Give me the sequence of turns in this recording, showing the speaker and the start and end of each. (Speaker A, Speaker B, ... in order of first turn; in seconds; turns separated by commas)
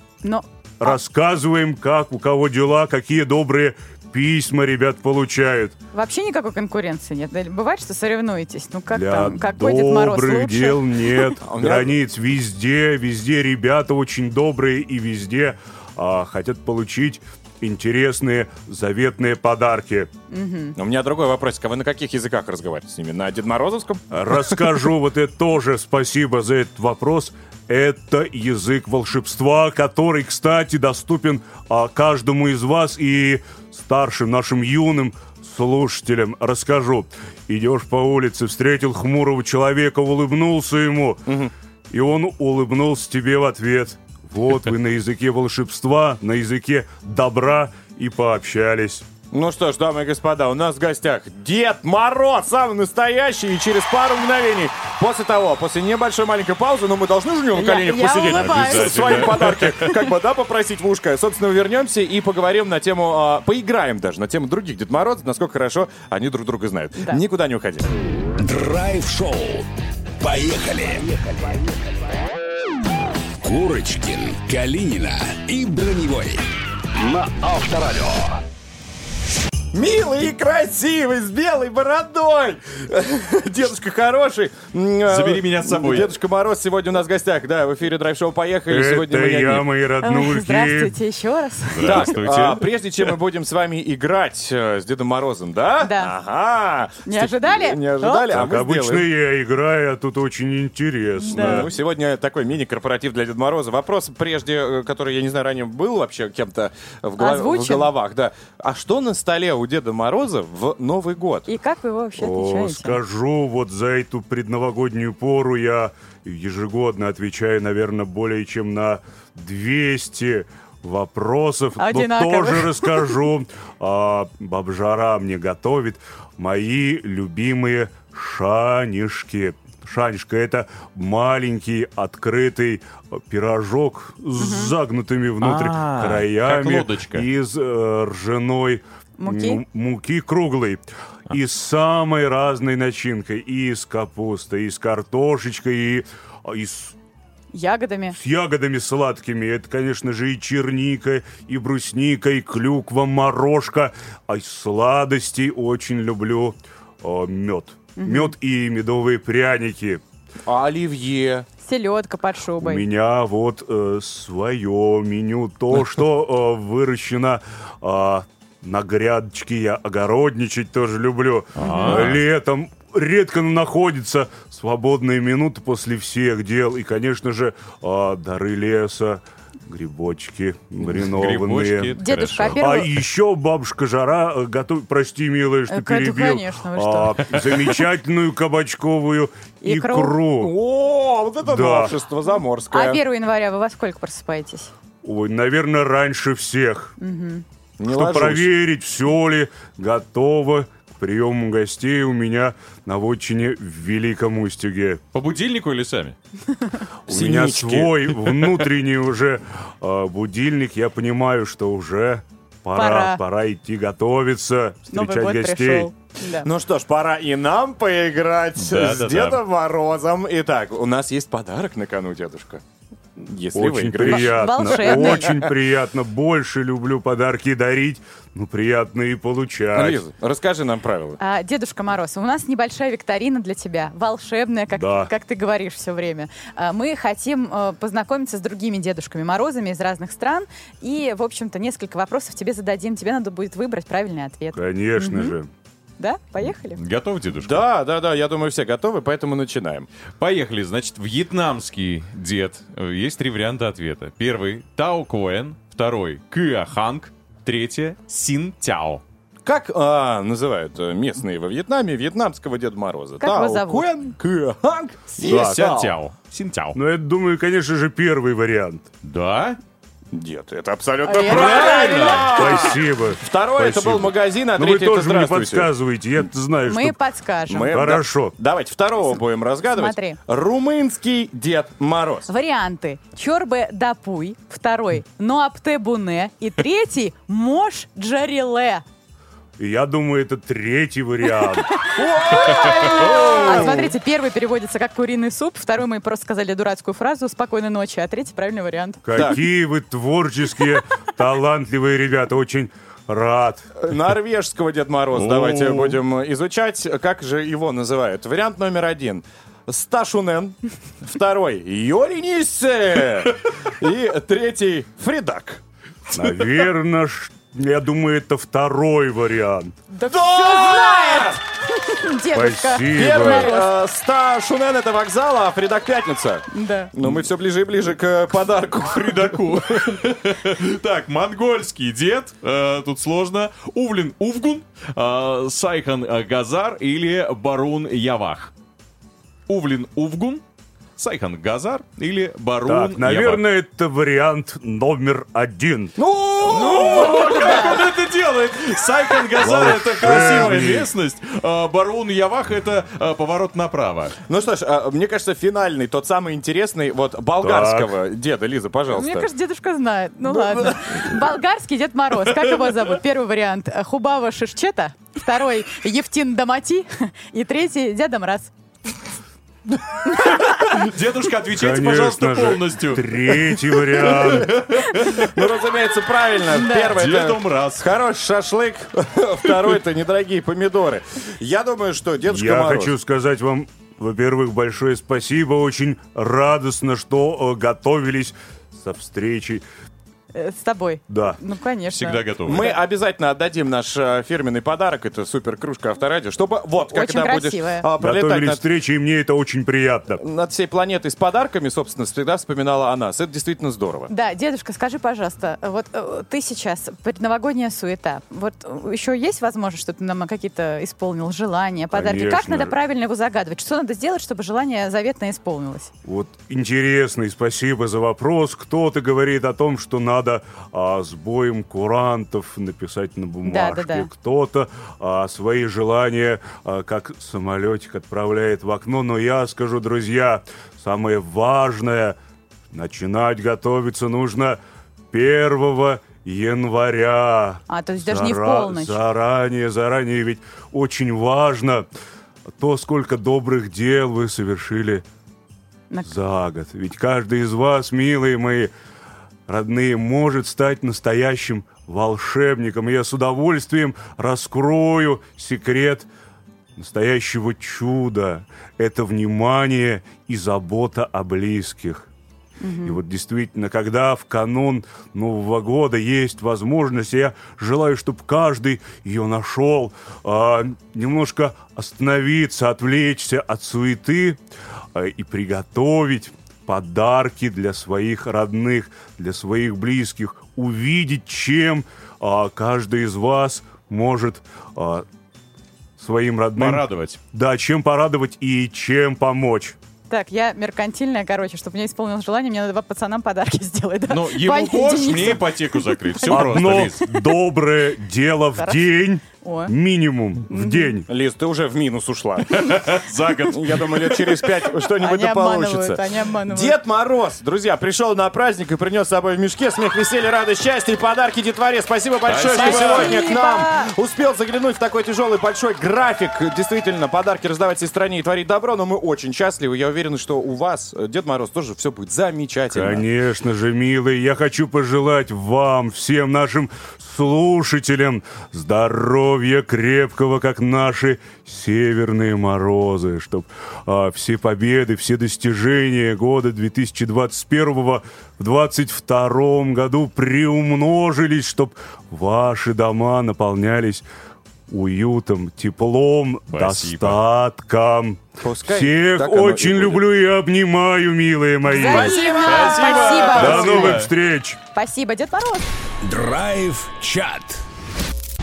Speaker A: 0.2-0.9, Speaker B: 0.8-5.8, Speaker A: 5.9-11.3, Speaker B: 8.9-20.1, Speaker C: 11.4-12.0, Speaker A: 20.3-20.8, Speaker C: 20.8-24.6, Speaker B: 24.1-41.2, Speaker B: 41.9-49.0, Speaker C: 49.3-67.9, Speaker A: 57.5-60.0, Speaker D: 58.3-59.9, Speaker A: 67.0-67.2, Speaker E: 68.4-69.7, Speaker E: 70.2-71.7, Speaker E: 73.4-76.4, Speaker E: 76.9-78.4, Speaker C: 79.7-89.7, Speaker D: 85.1-86.1, Speaker B: 88.7-90.9, Speaker A: 90.0-92.1, Speaker D: 91.7-92.7, Speaker C: 91.8-99.0, Speaker A: 95.8-96.1, Speaker A: 97.0-98.2, Speaker B: 98.3-101.7, Speaker A: 101.2-101.7, Speaker C: 101.3-111.5, Speaker A: 107.2-107.9, Speaker A: 111.5-113.0, Speaker B: 112.2-146.9, Speaker A: 121.8-123.0, Speaker A: 134.4-134.7, Speaker D: 135.4-137.3, Speaker A: 139.2-139.6, Speaker A: 147.5-148.2, Speaker B: 148.1-160.0, Speaker A: 158.0-158.3, Speaker C: 160.5-161.4, Speaker A: 161.6-162.9, Speaker B: 162.6-190.5, Speaker D: 171.6-172.2, Speaker A: 171.6-172.0, Speaker D: 180.9-182.6, Speaker A: 182.0-182.9, Speaker A: 185.7-187.2, Speaker A: 189.6-190.2, Speaker C: 190.4-193.0, Speaker B: 191.4-191.9, Speaker A: 192.7-194.7, Speaker B: 195.0-196.9, Speaker A: 197.0-197.4, Speaker C: 197.8-198.5, Speaker B: 197.8-205.0, Speaker D: 205.1-206.2, Speaker B: 207.1-215.9, Speaker C: 207.1-207.9, Speaker A: 212.7-213.2, Speaker A: 214.9-216.5, Speaker C: 216.4-222.6, Speaker D: 218.6-219.4, Speaker C: 223.2-225.5, Speaker B: 223.5-230.0, Speaker A: 224.0-225.4, Speaker C: 229.7-231.2, Speaker A: 231.2-245.3, Speaker B: 234.7-235.1, Speaker B: 244.5-245.5, Speaker A: 246.0-246.8, Speaker D: 246.7-247.7, Speaker C: 247.4-249.9, Speaker D: 250.2-259.0, Speaker C: 259.4-265.9, Speaker A: 263.2-263.9, Speaker B: 265.1-265.6, Speaker D: 265.2-266.8, Speaker B: 266.7-268.8, Speaker D: 269.0-269.6, Speaker C: 270.1-275.7, Speaker A: 271.0-272.6, Speaker D: 271.2-272.2, Speaker B: 272.2-277.0, Speaker A: 276.6-277.7, Speaker C: 277.5-282.3, Speaker B: 277.7-278.3, Speaker A: 279.8-280.2, Speaker A: 282.3-288.8, Speaker B: 289.6-291.8, Speaker A: 291.8-299.0, Speaker C: 291.9-293.9, Speaker B: 299.0-303.7, Speaker C: 299.1-299.5, Speaker C: 303.8-315.6, Speaker D: 305.1-306.0, Speaker B: 316.1-319.7, Speaker A: 319.9-323.7, Speaker C: 320.1-321.4, Speaker B: 322.3-323.5, Speaker C: 322.9-329.9, Speaker A: 326.5-326.9, Speaker D: 328.7-338.5, Speaker D: 339.5-340.4, Speaker D: 341.0-343.4, Speaker B: 342.6-345.9, Speaker C: 346.0-347.7, Speaker D: 346.5-354.1, Speaker A: 347.1-347.8, Speaker B: 349.4-350.9, Speaker C: 354.2-359.3, Speaker B: 357.4-357.9, Speaker A: 358.9-368.5, Speaker C: 360.2-361.1, Speaker D: 370.6-373.0, Speaker B: 371.5-374.6, Speaker C: 373.8-382.9, Speaker D: 374.5-375.3, Speaker A: 376.5-376.9, Speaker D: 376.9-377.8, Speaker B: 382.3-389.6, Speaker A: 390.3-392.8, Speaker B: 391.1-391.4, Speaker D: 391.9-392.6, Speaker C: 392.4-398.6, Speaker A: 396.9-397.9, Speaker B: 398.0-400.2, Speaker C: 400.2-404.1, Speaker A: 404.1-415.9, Speaker B: 411.9-412.7, Speaker B: 416.1-432.1, Speaker A: 423.4-424.1, Speaker B: 432.7-434.6, Speaker B: 435.1-441.9, Speaker A: 437.7-439.0, Speaker B: 442.6-445.0, Speaker B: 446.0-448.7, Speaker B: 449.5-456.1, Speaker B: 456.8-462.1, Speaker A: 462.6-463.0, Speaker B: 462.8-474.4, Speaker B: 474.9-485.0, Speaker B: 486.0-489.8, Speaker D: 486.6-487.2, Speaker A: 490.1-495.4, Speaker D: 494.1-497.0, Speaker A: 496.2-496.9, Speaker B: 496.2-501.1, Speaker A: 498.6-499.7, Speaker A: 500.5-500.9, Speaker C: 501.1-502.8, Speaker D: 502.5-504.4, Speaker C: 503.5-523.0, Speaker A: 505.0-506.8, Speaker D: 512.2-513.2, Speaker A: 512.5-513.9, Speaker B: 522.7-544.0, Speaker B: 544.7-552.1, Speaker D: 546.5-547.2, Speaker C: 548.4-550.1, Speaker A: 551.6-553.7, Speaker C: 551.8-554.0, Speaker D: 552.4-554.1, Speaker B: 553.3-554.6, Speaker A: 554.7-555.6, Speaker E: 556.0-557.6